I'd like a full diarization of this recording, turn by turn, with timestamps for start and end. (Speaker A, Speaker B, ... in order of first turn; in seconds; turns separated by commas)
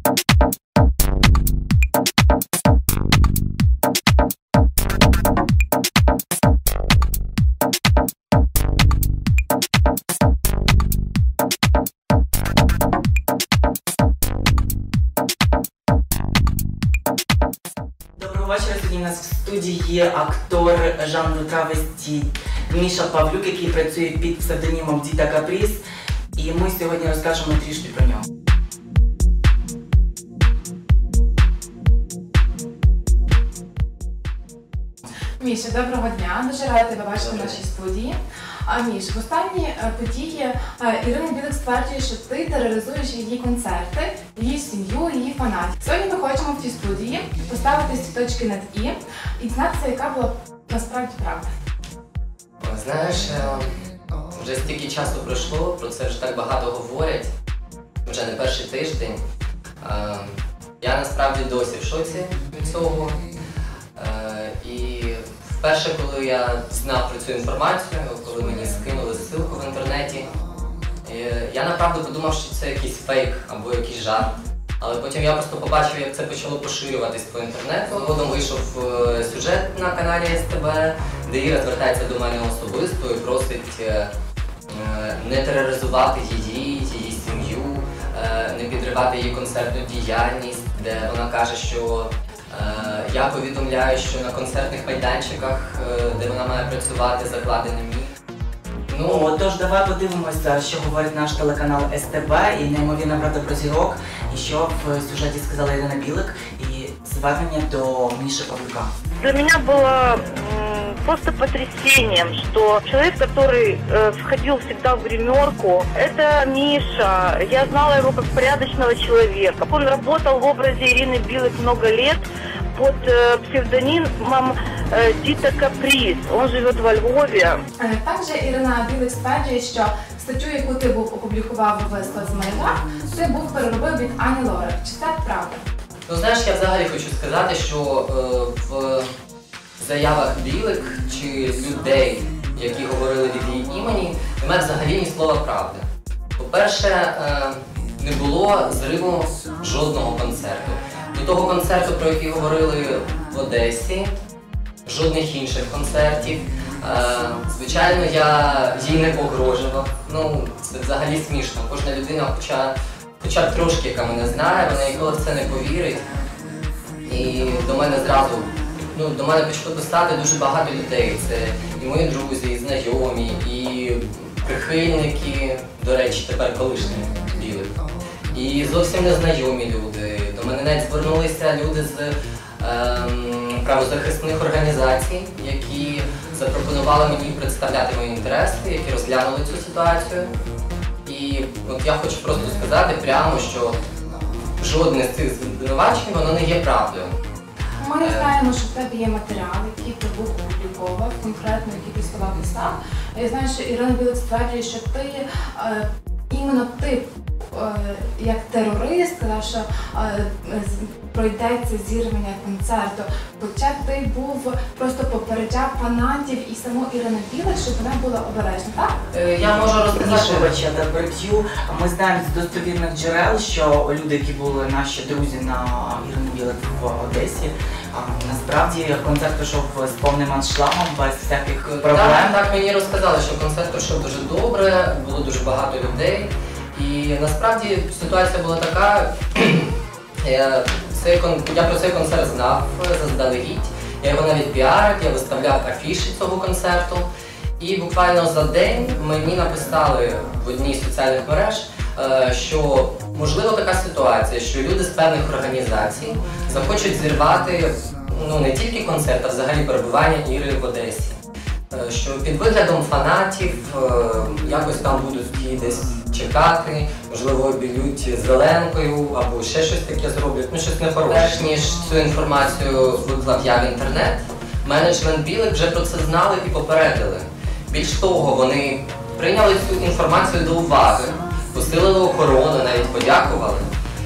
Speaker A: 18.2-25.8, Speaker A: 26.3-28.2, Speaker B: 35.4-51.4, Speaker C: 37.2-37.5, Speaker C: 52.6-53.7, Speaker C: 54.3-57.3, Speaker C: 58.0-59.2, Speaker C: 59.8-63.2, Speaker C: 64.0-70.3, Speaker C: 71.0-84.1, Speaker C: 84.7-98.1, Speaker C: 98.9-99.3, Speaker A: 99.0-108.9, Speaker D: 109.2-127.6, Speaker B: 127.8-135.6, Speaker C: 136.1-139.1, Speaker C: 139.8-145.8, Speaker C: 146.4-154.1, Speaker C: 154.8-166.0, Speaker C: 167.1-177.7, Speaker C: 178.3-190.3, Speaker C: 191.0-193.8, Speaker C: 194.6-197.1, Speaker B: 197.8-218.9, Speaker C: 198.0-198.3, Speaker C: 219.1-220.6, Speaker A: 219.9-232.4, Speaker C: 231.8-239.7, Speaker C: 240.2-247.1, Speaker C: 247.6-261.2, Speaker C: 261.7-283.7